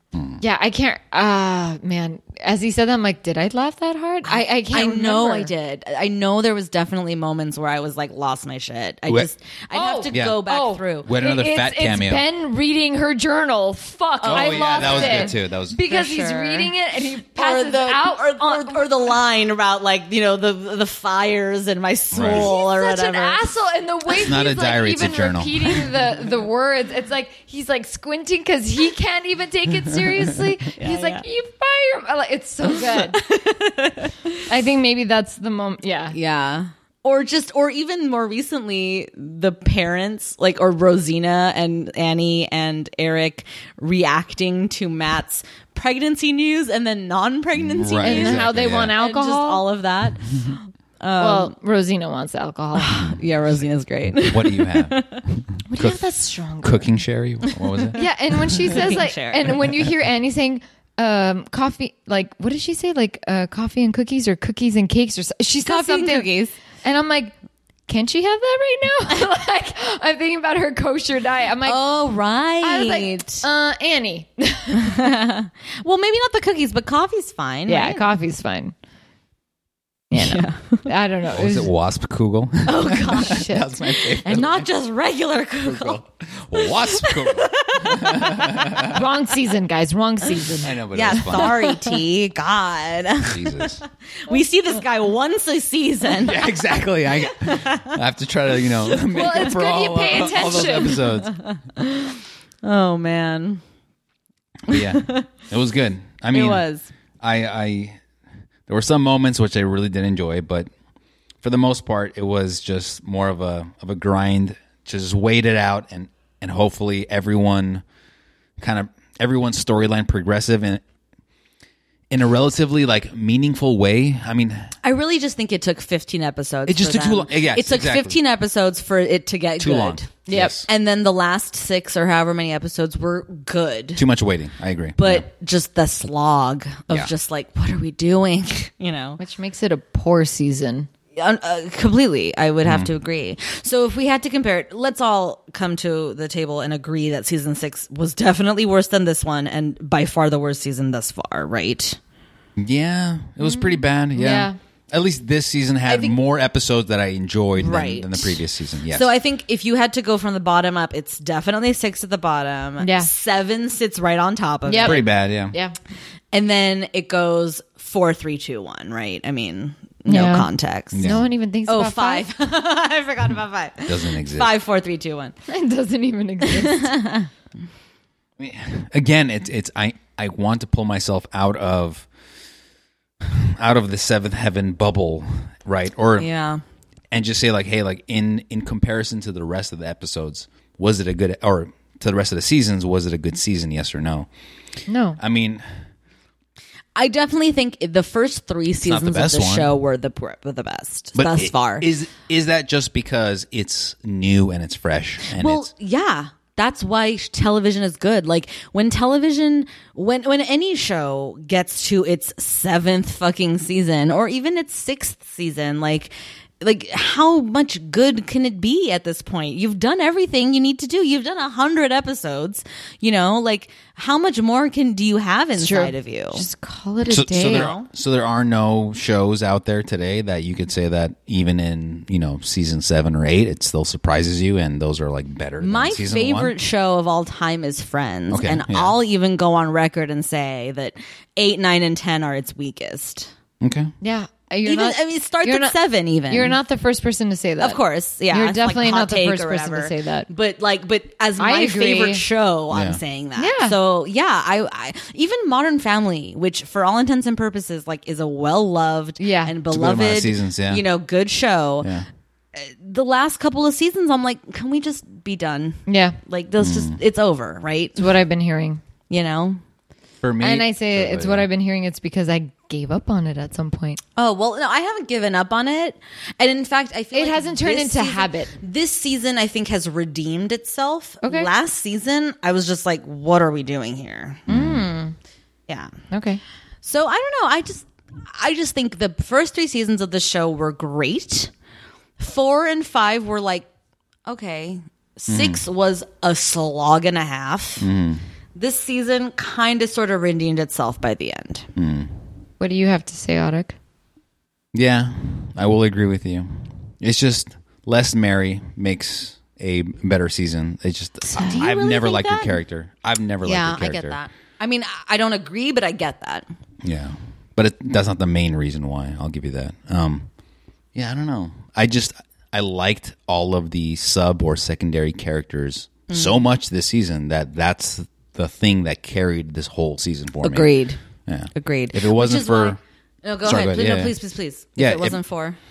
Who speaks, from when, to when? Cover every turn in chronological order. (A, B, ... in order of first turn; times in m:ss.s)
0:00.1-0:00.4 A
0:00.4-0:05.5 B
0:04.2-0:11.1 C
0:09.7-0:18.9 B
0:10.1-0:10.4 A
0:11.0-0:12.2 A
0:14.2-0:15.4 C
0:14.2-0:15.8 A
0:15.9-0:16.7 C
0:17.3-0:23.4 C
0:22.1-0:22.5 A
0:22.2-0:33.2 B
0:24.2-0:26.0 A
0:30.8-0:31.2 C
0:32.8-0:34.4 C
0:34.5-0:36.2 B
0:36.1-0:51.5 C
0:47.6-0:49.0 A
0:48.0-0:49.7 B
0:51.2-0:53.0 B
0:52.8-0:55.2 C
0:54.2-0:56.0 A
0:55.7-0:56.9 B
0:56.6-0:58.0 A
0:57.5-0:59.6 C
0:58.0-1:06.3 B
1:05.6-1:06.6 C
1:06.8-1:07.3 B
1:07.9-1:11.8 B
1:11.6-1:13.5 C
1:12.6-1:15.1 B
1:14.7-1:18.1 C
1:17.7-1:18.7 B
1:20.1-1:21.7 B
1:20.2-1:20.9 C
1:21.3-1:24.7 A
1:22.6-1:26.0 C
1:23.0-1:23.8 B
1:25.6-1:29.0 A
1:26.6-1:28.9 C
1:28.7-1:31.7 B
1:30.6-1:31.6 A
1:30.9-1:36.5 C
1:33.2-1:33.8 A
1:36.2-1:41.4 A
1:37.4-1:38.0 C
1:39.0-1:41.1 B
1:41.2-1:43.6 C
1:44.7-1:45.3 C
1:44.7-1:46.6 A
1:46.3-1:46.9 C
1:47.2-1:48.0 A
1:48.7-1:50.7 A
1:51.4-1:57.8 A
1:58.6-2:00.8 A
2:02.1-2:04.7 A
2:04.8-2:10.1 C
2:06.7-2:08.2 A
2:09.6-2:10.7 A
2:10.3-2:10.6 B
2:10.7-2:14.0 C
2:14.0-2:15.2 A
2:15.0-2:19.2 C
2:19.2-2:20.9 B
2:21.2-2:32.0 C
2:22.6-2:22.9 A
2:32.6-2:39.1 A
2:33.4-2:34.6 B
2:35.9-2:36.2 C
2:37.6-2:45.1 C
2:42.8-2:43.1 B
2:44.7-2:45.8 B
2:44.8-2:45.6 A
2:46.3-2:55.3 C
2:50.1-2:52.3 B
2:50.9-2:51.3 A
2:53.9-2:54.5 A
2:55.5-2:57.0 B
2:56.5-2:57.3 C
2:58.4-3:02.1 A
3:03.2-3:06.3 A
3:06.2-3:06.6 C
3:07.1-3:14.3 A
3:14.9-3:15.2 B
3:15.2-3:15.6 A
3:17.0-3:21.9 C
3:18.8-3:19.7 A
3:21.2-3:25.7 A
3:25.3-3:46.4 C
3:45.6-3:47.7 B
3:47.1-3:56.5 A
3:47.3-3:47.9 C
3:55.6-4:03.3 C
3:58.3-3:59.0 A
4:03.6-4:03.9 A
4:04.0-4:10.3 B
4:04.6-4:06.6 C
4:07.6-4:21.9 C
4:11.4-4:12.2 B
4:12.7-4:13.0 A
4:13.4-4:13.8 B
4:19.2-4:19.6 B
4:19.7-4:20.8 A
4:22.6-4:28.1 C
4:25.9-4:26.2 B
4:26.6-4:27.0 A
4:28.0-4:28.8 B
4:29.1-4:29.6 C
4:30.2-4:31.5 A
4:30.4-4:34.0 B
4:34.2-4:44.5 C
4:37.1-4:38.5 B
4:41.2-4:41.5 B
4:44.5-4:44.9 A
4:44.5-4:45.2 B
4:46.1-4:46.4 B
4:46.8-4:51.5 C
4:52.2-4:53.7 C
4:54.3-4:57.9 C
4:55.3-4:55.6 A
4:57.8-4:58.2 A
4:58.6-5:01.7 C
5:01.8-5:02.1 A
5:02.6-5:03.8 B
5:04.7-5:14.2 A
5:11.3-5:12.6 C
5:13.4-5:16.5 C
5:16.8-5:20.3 A
5:21.0-5:30.7 A
5:26.1-5:26.4 C
5:30.4-5:31.0 C
5:31.3-5:32.8 A
5:31.5-5:35.6 C
5:33.4-5:34.2 A
5:34.8-5:35.2 A